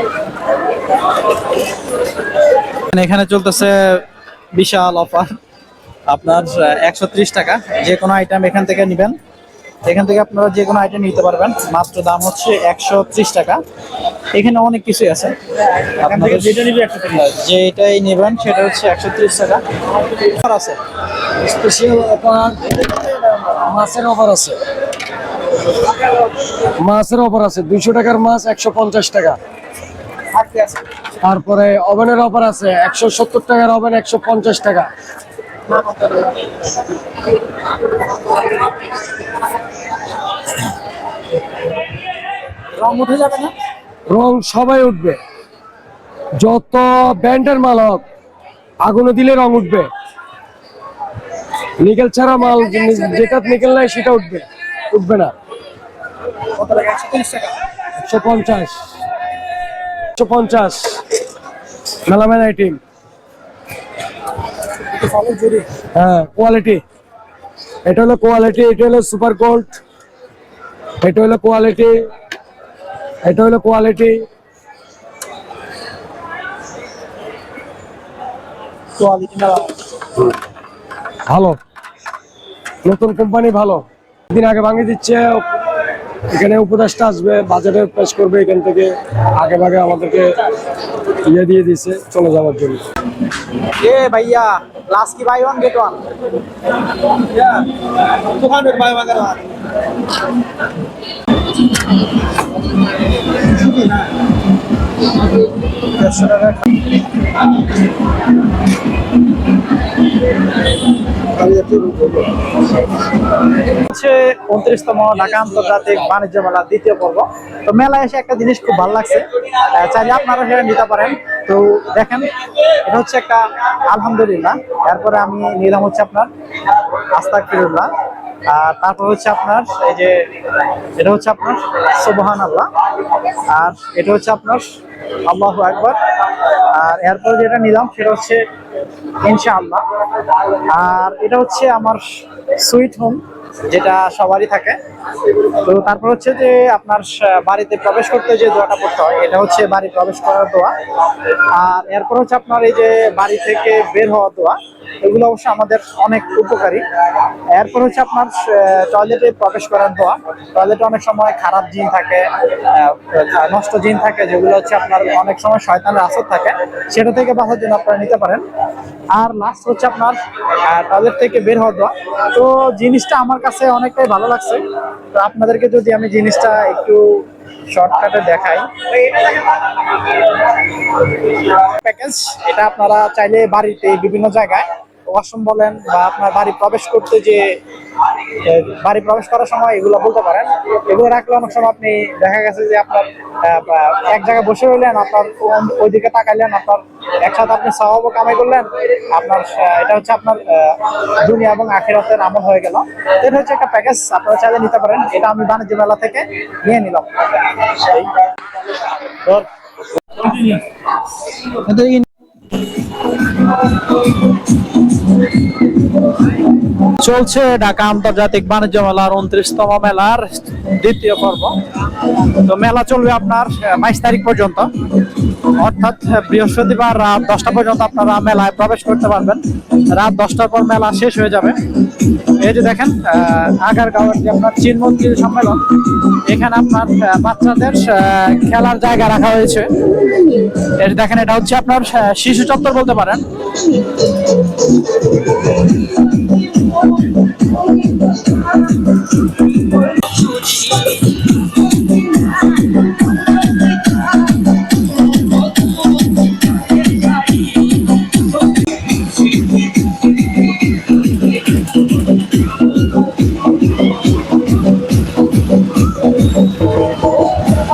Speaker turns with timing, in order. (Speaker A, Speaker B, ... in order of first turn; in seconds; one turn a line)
Speaker A: 2.9-5.4
Speaker A: 6.1-9.2
Speaker A: 9.8-13.6
Speaker A: 14.3-15.3
Speaker A: 16.0-20.8
Speaker B: 21.4-22.9
Speaker B: 23.5-24.6
Speaker B: 26.8-29.4
Speaker A: 30.4-30.8
Speaker B: 31.2-34.9
Speaker A: 42.8-43.5
Speaker B: 44.1-45.2
Speaker B: 46.4-48.0
Speaker B: 48.8-49.9
Speaker B: 51.8-55.3
Speaker A: 56.6-57.6
Speaker B: 58.0-58.8
Speaker B: 60.1-61.0
Speaker B: 62.1-62.8
Speaker A: 65.2-65.7
Speaker B: 65.8-66.8
Speaker B: 67.8-69.8
Speaker B: 71.0-72.1
Speaker B: 73.2-74.3
Speaker A: 79.0-79.7
Speaker B: 81.3-81.6
Speaker B: 82.8-85.5
Speaker B: 86.3-90.3
Speaker B: 91.2-92.8
Speaker A: 93.8-96.0
Speaker A: 98.3-99.4
Speaker A: 106.0-106.6
Speaker A: 111.4-112.2
Speaker A: 113.8-122.3
Speaker A: 122.8-126.3
Speaker A: 127.2-127.9
Speaker A: 128.5-130.3
Speaker A: 131.0-132.7
Speaker A: 133.5-134.7
Speaker A: 135.3-138.4
Speaker A: 139.2-139.8
Speaker A: 140.7-144.8
Speaker A: 145.6-150.7
Speaker A: 151.5-156.8
Speaker A: 157.5-168.4
Speaker A: 169.1-179.5
Speaker A: 181.5-187.6
Speaker A: 188.4-208.0
Speaker A: 210.2-210.6
Speaker A: 211.5-212.1
Speaker A: 217.0-221.6
Speaker A: 222.4-224.7
Speaker A: 225.6-231.6
Speaker A: 232.4-235.6
Speaker A: 236.3-239.7
Speaker A: 240.8-243.2